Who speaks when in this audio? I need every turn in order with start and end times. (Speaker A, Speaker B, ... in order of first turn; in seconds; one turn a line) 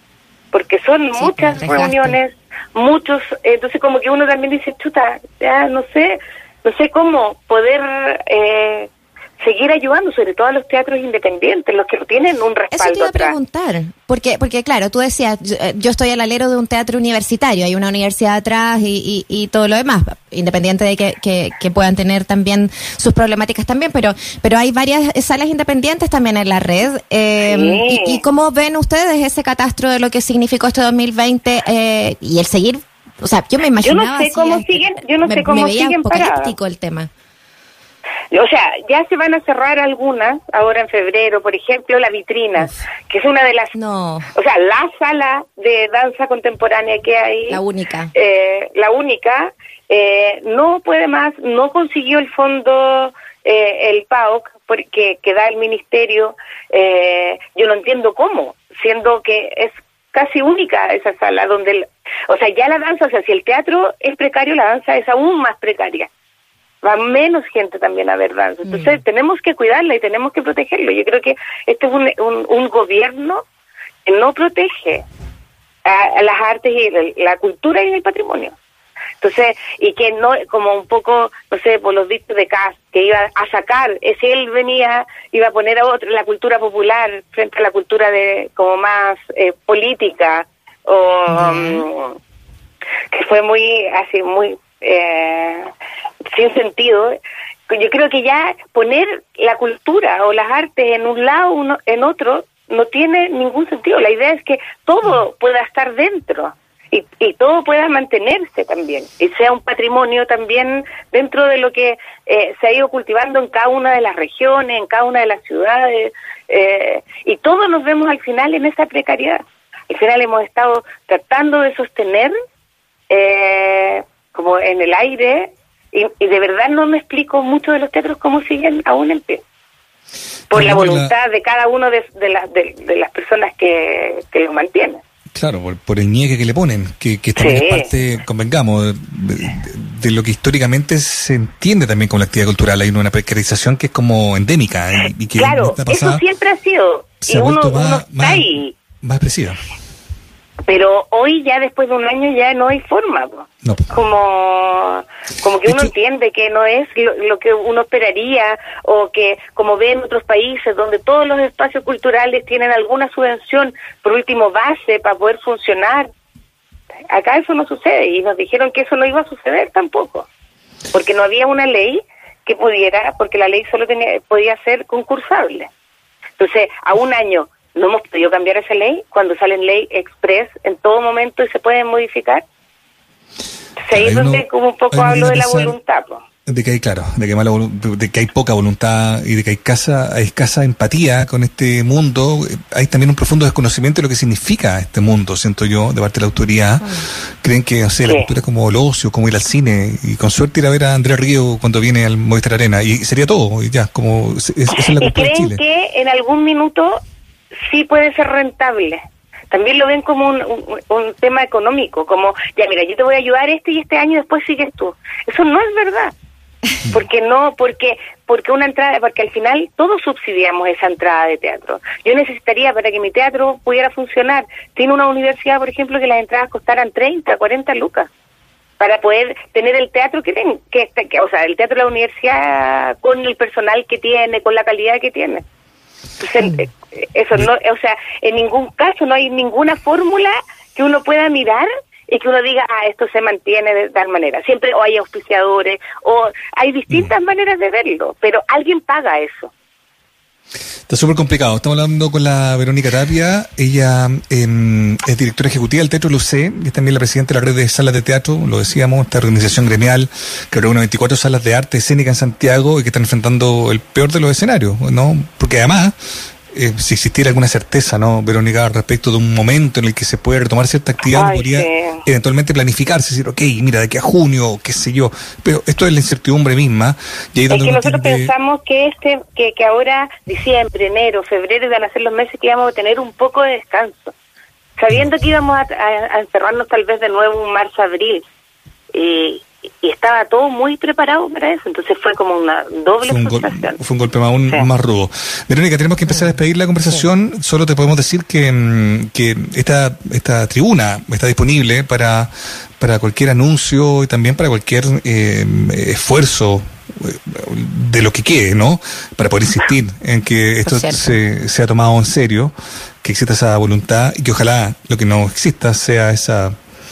Speaker A: 0.5-13.3
Speaker B: 1.1-2.2
Speaker B: 12.7-37.1
Speaker A: 27.4-28.2
Speaker A: 33.8-36.5
Speaker A: 38.3-43.7
Speaker B: 43.7-44.3
Speaker A: 44.3-47.6
Speaker B: 47.5-48.1
Speaker A: 48.1-66.1
Speaker A: 66.8-73.4
Speaker B: 68.6-69.0
Speaker A: 74.0-75.0
Speaker A: 75.8-78.5
Speaker A: 79.2-92.2
Speaker B: 91.3-91.8
Speaker A: 93.1-95.7
Speaker A: 96.3-97.1
Speaker A: 97.7-122.3
Speaker A: 123.1-129.4
Speaker A: 130.5-135.0
Speaker C: 130.5-131.1
Speaker C: 135.3-146.2
Speaker A: 137.4-137.9
Speaker A: 145.3-148.7
Speaker C: 147.2-149.6
Speaker A: 150.7-166.1
Speaker C: 153.6-153.9
Speaker A: 167.1-170.3
Speaker A: 170.9-175.7
Speaker A: 176.4-182.4
Speaker A: 183.9-186.2
Speaker C: 183.9-185.8
Speaker C: 186.4-205.6
Speaker A: 198.0-198.3
Speaker A: 204.8-207.0
Speaker A: 207.7-209.0
Speaker A: 209.5-216.1
Speaker A: 216.9-228.1
Speaker A: 228.8-235.4
Speaker A: 236.2-249.5
Speaker C: 250.9-265.9
Speaker C: 266.5-278.3
Speaker A: 271.1-272.0
Speaker A: 277.5-284.1
Speaker A: 284.8-288.2
Speaker A: 288.9-293.8
Speaker C: 293.1-316.5
Speaker B: 310.6-311.1